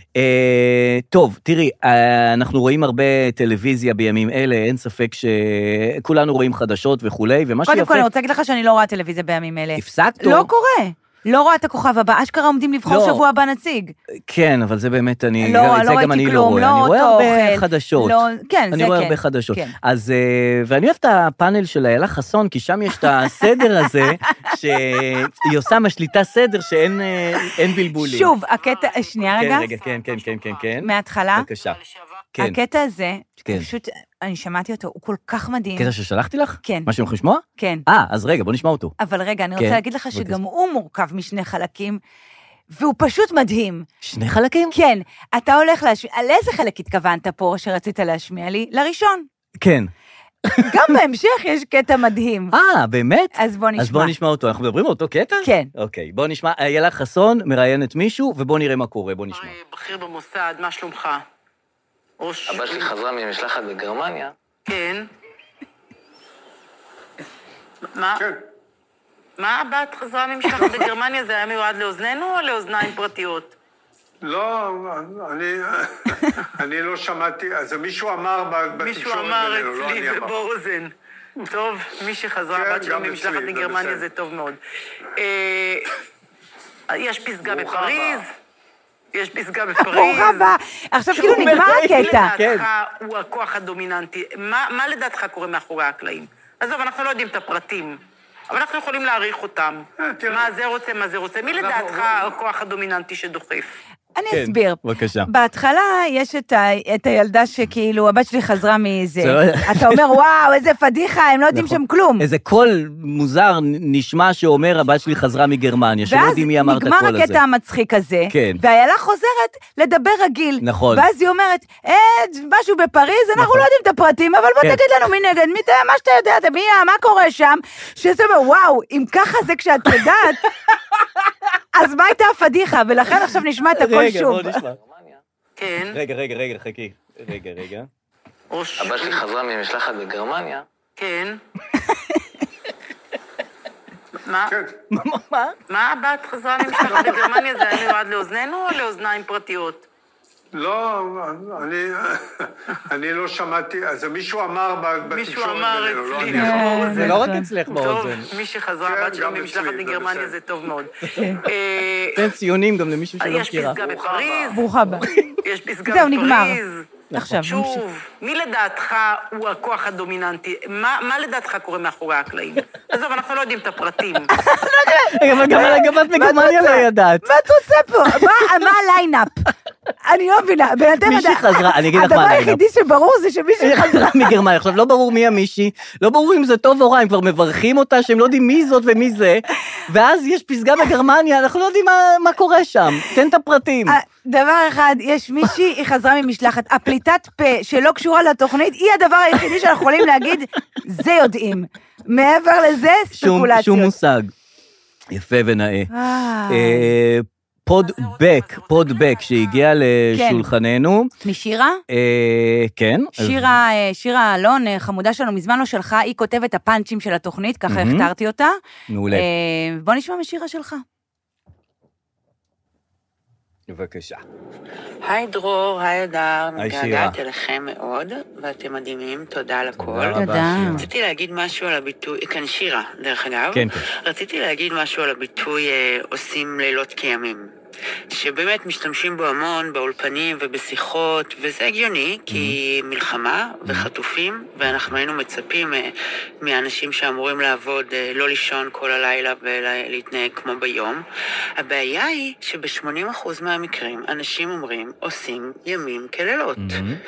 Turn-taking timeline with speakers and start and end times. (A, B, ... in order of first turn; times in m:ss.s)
0:00.1-0:08.1 A
0:07.7-0:13.9 B
0:09.8-0:10.5 A
0:12.9-0:13.2 A
0:14.2-0:28.3 A
0:15.4-0:19.7 B
0:23.0-0:24.4 B
0:27.9-0:29.7 B
0:29.3-0:31.8 A
0:29.8-0:30.4 C
0:30.8-0:31.5 B
0:32.4-0:35.9 B
0:35.8-0:38.9 A
0:36.6-0:36.9 B
0:37.6-0:37.8 B
0:39.0-0:42.0 B
0:39.6-0:40.4 A
0:42.7-0:43.9 B
0:44.0-0:44.7 A
0:44.7-0:49.2 B
0:49.6-0:49.9 A
0:50.5-0:52.5 B
0:50.5-0:50.9 A
0:52.5-0:59.5 A
0:53.3-0:54.1 B
0:55.4-0:55.7 B
0:59.3-1:01.2 C
1:02.2-1:02.9 C
1:02.5-1:04.3 D
1:04.6-1:05.1 C
1:07.9-1:08.2 C
1:09.4-1:13.5 C
1:14.2-1:20.3 E
1:18.7-1:20.9 C
1:21.4-1:24.6 C
1:22.5-1:24.1 E
1:25.2-1:25.8 C
1:26.9-1:28.3 C
1:27.4-1:28.2 E
1:29.1-1:30.5 C
1:29.8-1:32.3 B
1:31.1-1:32.7 A
1:31.3-1:38.0 C
1:38.5-1:43.8 C
1:40.0-1:40.5 E
1:41.6-1:42.2 E
1:44.2-1:52.2 B
1:44.3-1:45.3 A
1:49.2-1:50.1 A
1:51.5-1:57.4 A
1:56.0-2:10.5 B
1:58.3-1:58.6 A
2:00.6-2:01.0 A
2:03.4-2:03.7 A
2:11.7-2:14.6 B
2:13.7-2:14.8 A
2:15.6-2:16.0 C
2:15.9-2:17.9 A
2:18.5-2:19.2 C
2:18.8-2:20.6 D
2:21.0-2:21.4 C
2:21.9-2:22.2 B
2:24.2-2:24.6 C
2:24.5-2:24.7 E
2:24.9-2:25.6 A
2:25.7-2:29.8 C
2:30.5-2:36.9 E
2:35.0-2:42.3 C
2:36.2-2:37.5 B
2:36.7-2:38.3 A
2:38.8-2:40.4 E
2:41.1-2:41.4 B
2:42.1-2:43.8 A
2:43.2-2:44.6 C
2:43.8-2:44.6 E
2:44.5-2:45.1 B
2:45.0-2:45.3 A
2:45.4-2:54.3 C
2:45.8-2:46.6 B
2:47.1-2:47.8 B
2:54.3-2:59.5 B
2:55.1-2:57.2 A
2:58.0-2:58.6 A
3:00.1-3:04.4 B
3:01.0-3:02.6 A
3:03.6-3:14.0 A
3:13.9-3:23.9 B
3:23.1-3:24.3 A
3:25.1-3:25.9 A
3:25.9-3:26.9 B
3:26.5-3:31.1 A
3:30.1-3:30.5 B
3:31.2-3:31.8 B
3:31.9-3:33.5 A
3:33.2-3:38.6 B
3:37.7-3:38.1 A
3:38.9-3:39.3 A
3:39.1-3:40.8 B
3:43.7-3:44.2 A
3:45.0-3:57.4 F
3:46.6-3:47.2 A
3:49.8-3:50.9 A
3:50.1-3:50.8 B
3:53.5-3:53.9 A
3:58.1-4:11.0 F
4:02.3-4:02.6 A
4:11.6-4:16.8 F
4:16.6-4:17.0 A